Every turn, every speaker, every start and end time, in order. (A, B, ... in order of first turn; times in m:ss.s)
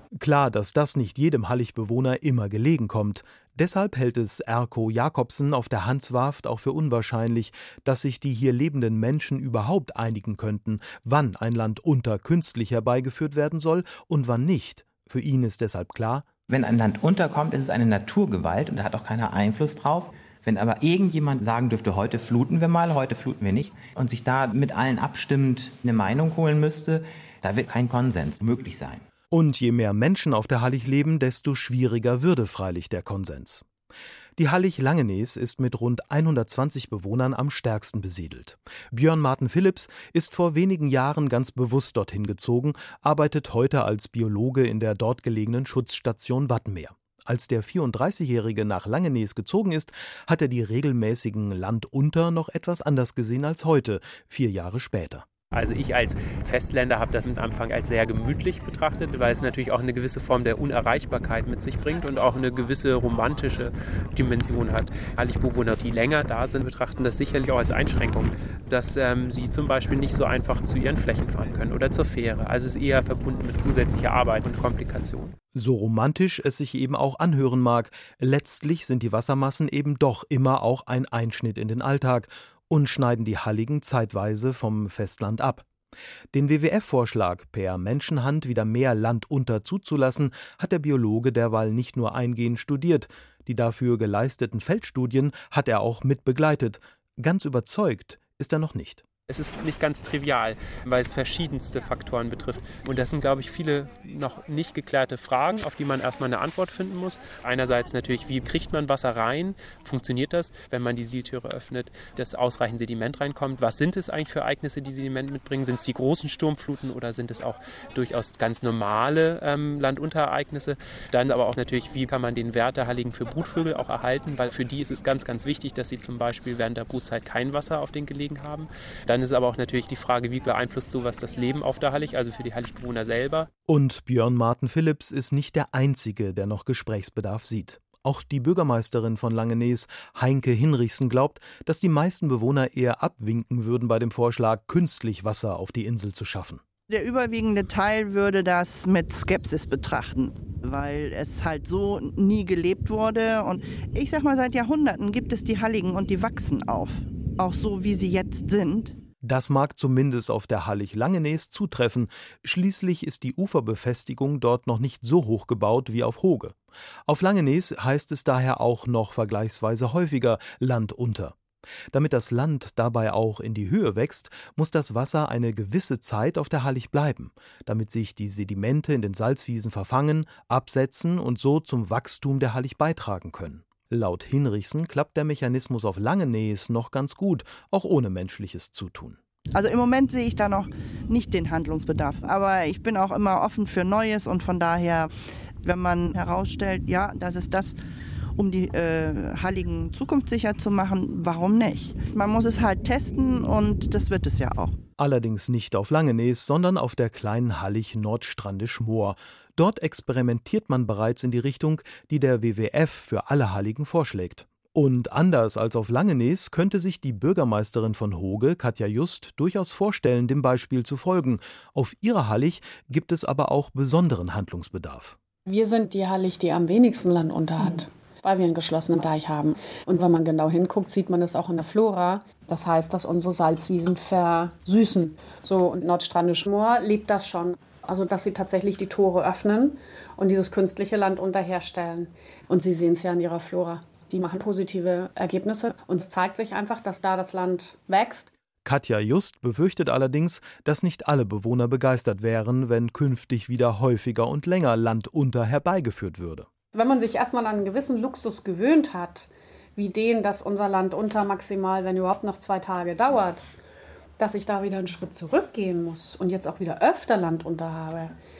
0:00.2-0:16.3 A
0:16.5-0:29.0 B
0:29.3-0:33.7 A
0:34.4-0:55.2 A
0:55.5-1:15.4 C
1:15.5-1:25.7 A
1:26.3-1:39.0 A
1:39.3-2:13.5 C
2:13.7-2:26.6 A
2:26.9-2:38.9 D
2:39.2-2:46.6 A
2:47.1-2:51.4 A
2:51.9-3:09.2 A
3:09.5-3:15.1 D
3:15.6-3:17.7 D
3:18.4-3:24.7 D
3:25.0-3:45.2 A
3:45.5-4:08.3 E
4:08.6-4:16.5 A
4:16.7-4:23.4 E
4:24.2-4:28.2 E